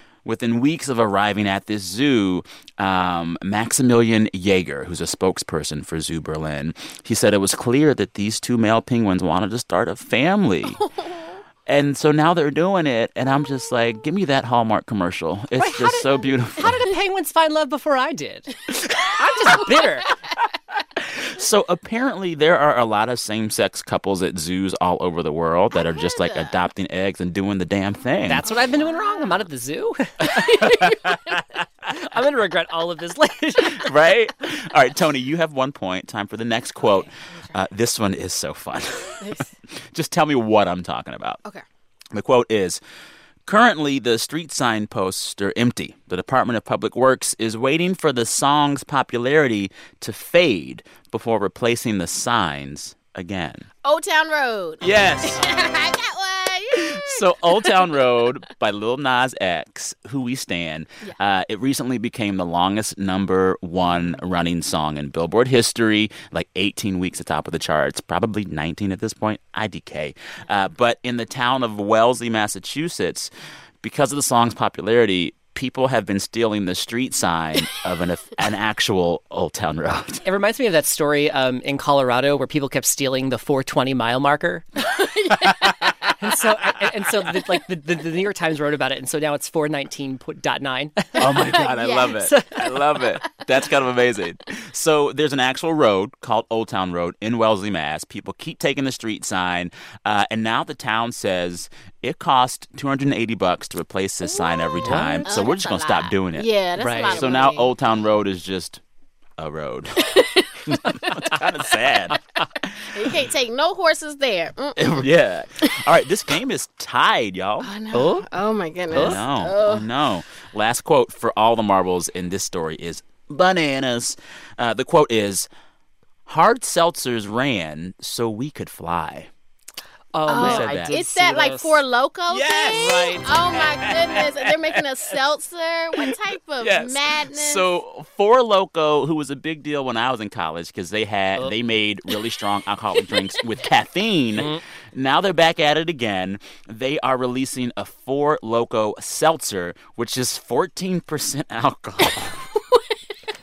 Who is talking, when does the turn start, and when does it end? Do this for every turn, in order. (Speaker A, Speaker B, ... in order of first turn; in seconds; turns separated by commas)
Speaker A: 0.2-10.8, Speaker B: 10.7-11.3, Speaker A: 11.7-16.8, Speaker C: 15.6-18.6, Speaker C: 19.1-20.1, Speaker A: 21.4-28.5, Speaker B: 25.8-26.5, Speaker C: 28.3-31.1, Speaker A: 30.6-30.9, Speaker C: 31.9-33.9, Speaker A: 33.8-39.4, Speaker B: 36.8-37.1, Speaker B: 39.2-39.5, Speaker A: 39.9-41.4, Speaker A: 42.1-42.8, Speaker A: 43.5-53.7, Speaker B: 53.8-58.0, Speaker A: 54.8-55.5, Speaker A: 56.7-73.3, Speaker A: 73.8-80.2, Speaker C: 80.2-84.8, Speaker B: 84.9-85.7, Speaker C: 86.2-92.6, Speaker A: 91.2-108.8, Speaker B: 91.6-92.2, Speaker B: 104.2-107.8, Speaker C: 104.8-105.3, Speaker C: 106.8-107.3, Speaker A: 109.4-113.2, Speaker B: 110.0-110.6, Speaker B: 112.9-115.1, Speaker A: 114.8-117.7, Speaker B: 117.6-119.9, Speaker C: 117.9-118.3, Speaker A: 118.9-125.5, Speaker C: 118.9-119.2, Speaker A: 126.3-129.3, Speaker C: 130.1-131.8, Speaker B: 130.3-137.7, Speaker A: 130.4-130.9, Speaker A: 132.3-134.8, Speaker C: 132.6-133.3, Speaker A: 136.0-152.5, Speaker C: 144.3-144.6